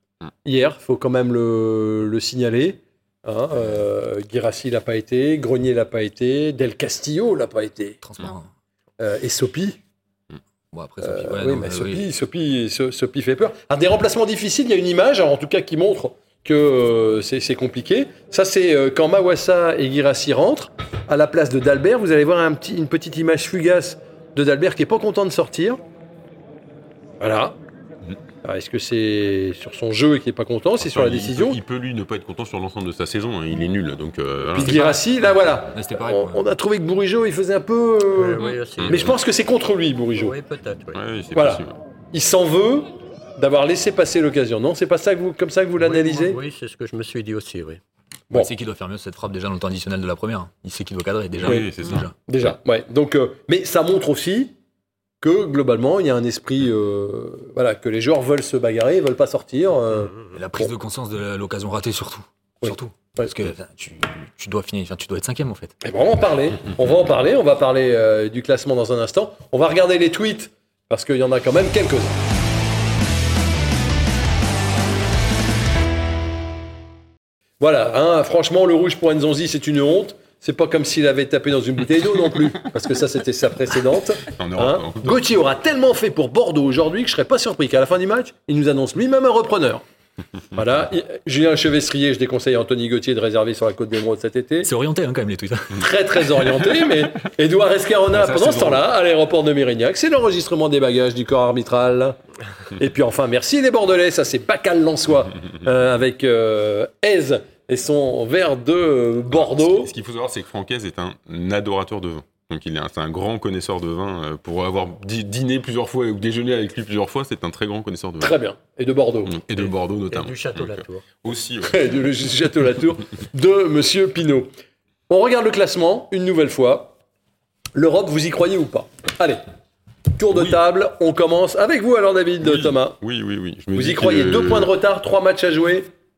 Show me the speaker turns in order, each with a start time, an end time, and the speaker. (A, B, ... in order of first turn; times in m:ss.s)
0:00.4-0:08.0 A
0:03.6-0:03.8 B
0:08.0-0:08.5 B
0:09.0-0:09.8 A
0:10.7-0:12.0 B
0:11.0-0:25.8 A
0:27.2-0:27.6 A
0:28.4-0:31.6 A
0:30.8-0:34.8 C
0:34.5-0:40.3 A
0:34.6-0:34.9 B
0:35.7-0:36.4 B
0:38.2-0:39.2 D
0:38.8-0:39.1 C
0:40.2-0:41.0 D
0:40.9-0:41.8 C
0:41.4-0:46.4 A
0:45.8-0:47.8 D
0:48.3-0:52.1 B
0:51.4-0:52.1 C
0:51.4-0:51.7 A
0:52.3-0:54.5 A
0:55.2-1:00.7 A
1:00.3-1:05.8 B
1:02.6-1:03.3 A
1:05.8-1:12.2 A
1:17.6-1:29.8 A
1:24.3-1:25.3 C
1:30.5-1:34.7 A
1:34.6-1:36.3 B
1:35.8-1:42.2 A
1:38.1-1:38.8 C
1:42.8-1:49.9 A
1:49.3-1:58.4 C
1:58.2-1:59.4 A
1:59.3-2:02.0 C
2:00.1-2:01.0 D
2:01.6-2:04.5 A
2:05.1-2:07.0 A
2:07.8-2:09.5 A
2:10.2-2:13.0 A
2:12.4-2:14.7 C
2:13.8-2:15.9 A